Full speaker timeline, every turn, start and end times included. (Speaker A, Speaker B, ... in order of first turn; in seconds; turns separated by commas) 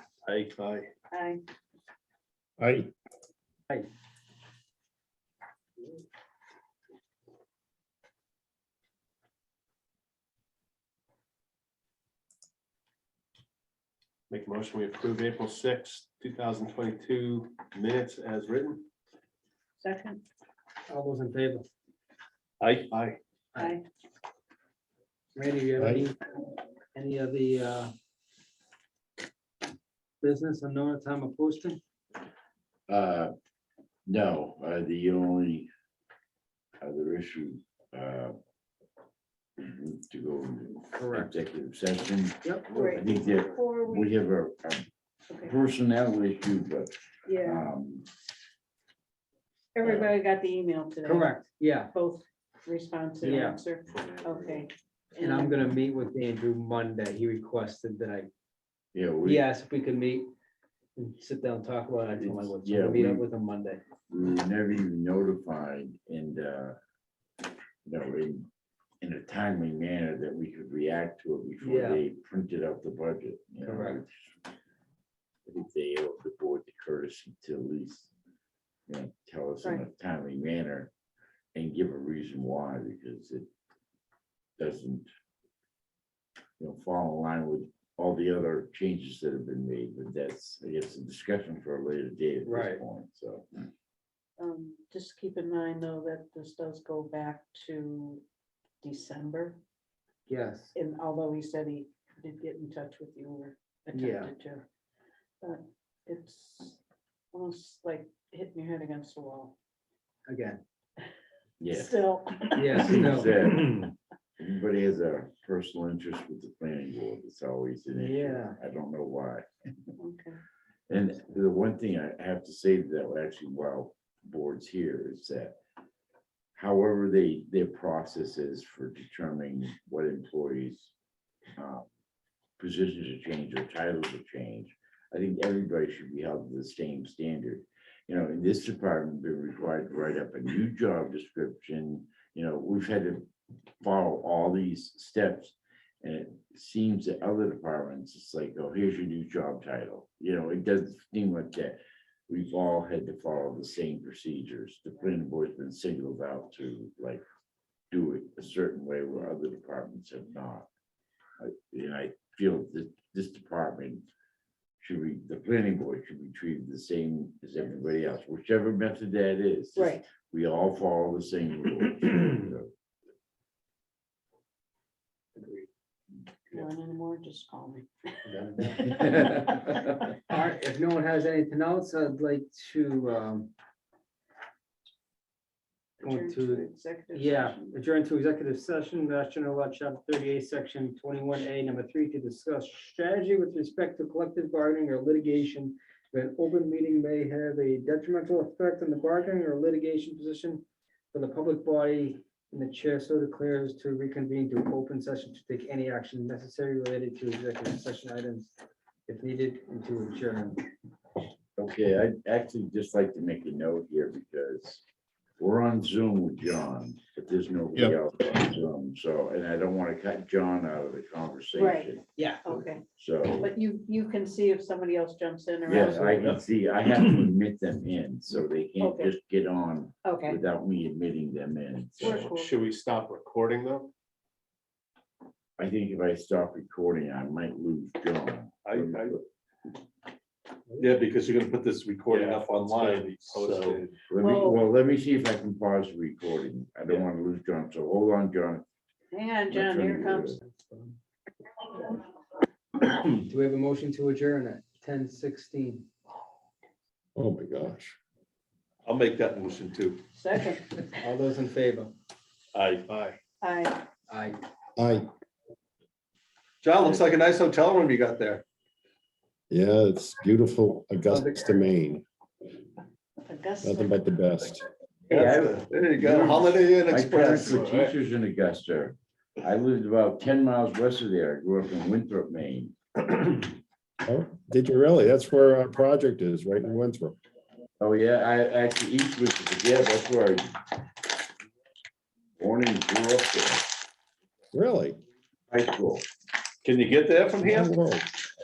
Speaker A: 0.2-0.8, Speaker B: 1.1-1.4, Speaker C: 2.6-2.9, Speaker D: 14.3-18.9, Speaker B: 19.8-20.2, Speaker E: 20.9-21.7, Speaker A: 22.6-23.0, Speaker D: 22.9-23.2, Speaker B: 23.6-23.8, Speaker E: 25.4-26.2, Speaker C: 25.8-26.1, Speaker E: 26.9-27.9, Speaker E: 30.2-31.8, Speaker F: 32.9-33.3, Speaker F: 34.1-35.7, Speaker F: 36.8-38.4, Speaker F: 39.6-44.9, Speaker E: 41.0-41.4, Speaker B: 42.6-44.2, Speaker B: 45.3-45.6, Speaker F: 45.4-48.1, Speaker B: 47.3-47.7, Speaker B: 49.8-55.7, Speaker F: 49.8-50.1, Speaker E: 51.0-51.9, Speaker E: 53.2-53.6, Speaker E: 55.2-58.3, Speaker F: 58.9-59.5, Speaker E: 59.2-60.3, Speaker E: 61.0-63.8, Speaker F: 62.5-63.2, Speaker F: 64.1-66.8, Speaker F: 67.8-68.5, Speaker F: 69.0-74.3, Speaker E: 71.6-72.0, Speaker E: 73.6-74.0, Speaker F: 75.5-78.1, Speaker F: 78.9-80.9, Speaker F: 81.5-83.5, Speaker F: 84.6-85.1, Speaker F: 86.6-93.5, Speaker E: 92.5-92.8, Speaker B: 94.4-98.2, Speaker B: 98.8-99.6, Speaker E: 100.3-100.7, Speaker B: 100.7-104.7, Speaker E: 103.9-104.3, Speaker B: 105.4-106.8, Speaker B: 107.3-109.5, Speaker E: 110.3-110.6, Speaker F: 111.6-112.0, Speaker B: 111.7-113.0, Speaker E: 112.6-113.4, Speaker F: 112.8-119.9, Speaker E: 118.0-118.6, Speaker B: 120.0-120.4, Speaker F: 120.9-125.6, Speaker F: 126.6-130.9, Speaker F: 131.6-131.9, Speaker F: 132.6-143.3, Speaker F: 143.8-157.2, Speaker F: 157.9-160.7, Speaker F: 161.4-164.1, Speaker F: 164.8-172.7, Speaker B: 169.8-170.1, Speaker E: 175.4-175.7, Speaker B: 176.5-177.9, Speaker E: 178.3-179.4, Speaker B: 178.6-179.8, Speaker E: 180.3-183.5, Speaker B: 186.0-187.7, Speaker E: 186.0-208.5, Speaker E: 209.1-210.6, Speaker F: 211.6-214.8, Speaker F: 215.4-222.0, Speaker B: 221.6-222.9, Speaker E: 222.2-222.6, Speaker F: 222.9-223.5, Speaker B: 223.4-226.4, Speaker F: 225.7-232.5, Speaker B: 228.8-229.1, Speaker B: 230.0-230.4, Speaker B: 232.0-232.5, Speaker D: 232.0-233.9, Speaker F: 235.6-239.2, Speaker A: 238.7-239.2, Speaker A: 240.8-243.9, Speaker D: 242.1-243.9, Speaker F: 244.1-248.7, Speaker B: 244.2-244.7, Speaker B: 249.1-250.4, Speaker F: 249.5-250.4, Speaker E: 250.4-251.0, Speaker E: 253.2-255.9, Speaker C: 257.2-258.0, Speaker A: 258.9-260.0, Speaker B: 260.1-261.0, Speaker E: 261.0-261.9, Speaker A: 262.5-262.9, Speaker D: 262.9-263.2, Speaker B: 263.4-263.9, Speaker E: 264.1-264.4, Speaker C: 264.8-265.1, Speaker A: 266.6-268.4, Speaker C: 269.5-272.1, Speaker E: 271.1-271.6, Speaker B: 273.2-273.9, Speaker C: 273.6-274.6, Speaker F: 275.1-282.8, Speaker A: 275.1-277.9, Speaker C: 284.1-287.2, Speaker F: 287.8-290.5, Speaker F: 292.4-293.7, Speaker C: 294.5-295.0, Speaker F: 295.5-296.0, Speaker A: 296.6-297.7, Speaker C: 297.4-298.1